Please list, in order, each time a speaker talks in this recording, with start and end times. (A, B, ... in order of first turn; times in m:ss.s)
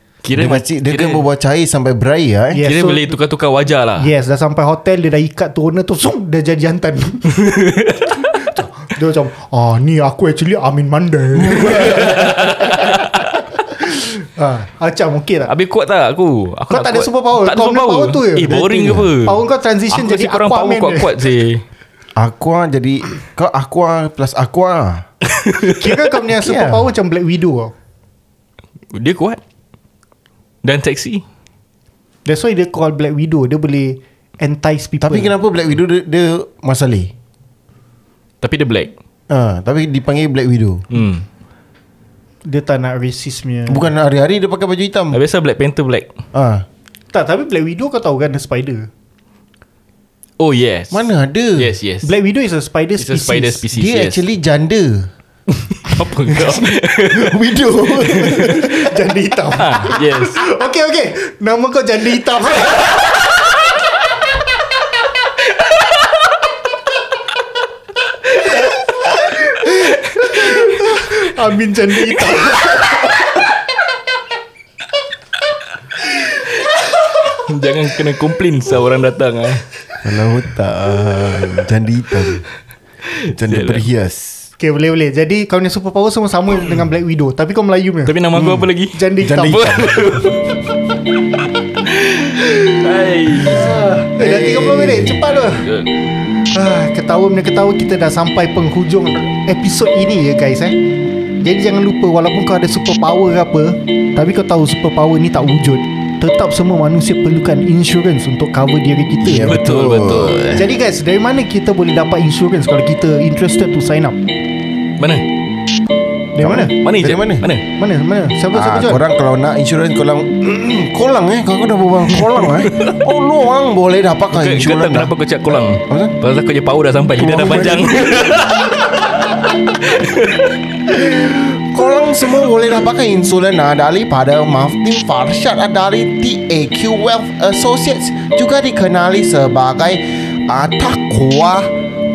0:00.2-0:01.2 A
0:00.3-0:02.6 B
0:02.5-0:03.1 C
0:02.6-0:04.1 A
0:04.0-0:07.5 C
0:07.4-0:08.2 A
0:08.4-0:12.2 C
0:11.4-0:12.7 B
0:11.7-0:13.3 A
0:14.2-0:15.5 C
0:15.5-0:21.6 A
0:16.7-0:21.2 C
0:18.6-0:19.1 B
0:22.2-0:25.0 B
0:25.3-0:25.9 A
0:25.8-0:27.7 C
0:26.4-0:26.9 B
0:28.9-0:29.4 A
0:30.6-0:31.2 A
0:32.2-0:35.3 C
0:35.0-0:37.1 B
0:38.4-0:38.9 A
0:39.3-0:40.8 B
0:40.9-0:41.2 A
0:42.4-0:43.9 C
0:43.7-0:45.2 B
0:45.1-0:46.1 A
0:46.3-0:46.6 B
0:47.1-0:48.9 C
0:50.4-0:52.1 A
0:50.9-0:51.7 B
0:52.0-0:53.6 C
0:53.0-0:54.2 A
0:53.7-0:55.1 B
0:55.6-0:58.5 A
0:56.3-0:58.9 B
0:58.4-1:03.1 C
0:59.5-1:00.4 A
1:09.2-1:13.2 C
1:10.2-1:10.6 A
1:12.2-1:12.9 A
1:17.3-1:19.6 A
1:20.0-1:22.4 B
1:23.1-1:23.8 A
1:23.3-1:24.5 B
1:24.6-1:28.1 C
1:28.0-1:30.5 A
1:28.3-1:28.7 B
1:28.9-1:29.7 C
1:29.2-1:30.2 B
1:31.9-1:33.8 A
1:33.4-1:35.7 C
1:34.2-1:35.2 B
1:35.3-1:35.9 A
1:36.4-1:40.8 C
1:41.4-1:49.6 C
1:49.2-1:50.6 B
1:49.3-1:50.6 A
1:50.5-1:54.2 C
1:55.0-1:55.2 A
1:56.3-1:56.7 C
1:56.4-1:57.5 B
1:56.7-1:57.6 A
1:57.7-1:59.0 C
1:58.5-2:05.1 B
2:02.5-2:02.9 A
2:04.3-2:10.9 A
2:05.8-2:06.2 B
2:07.2-2:08.8 B
2:10.9-2:21.7 B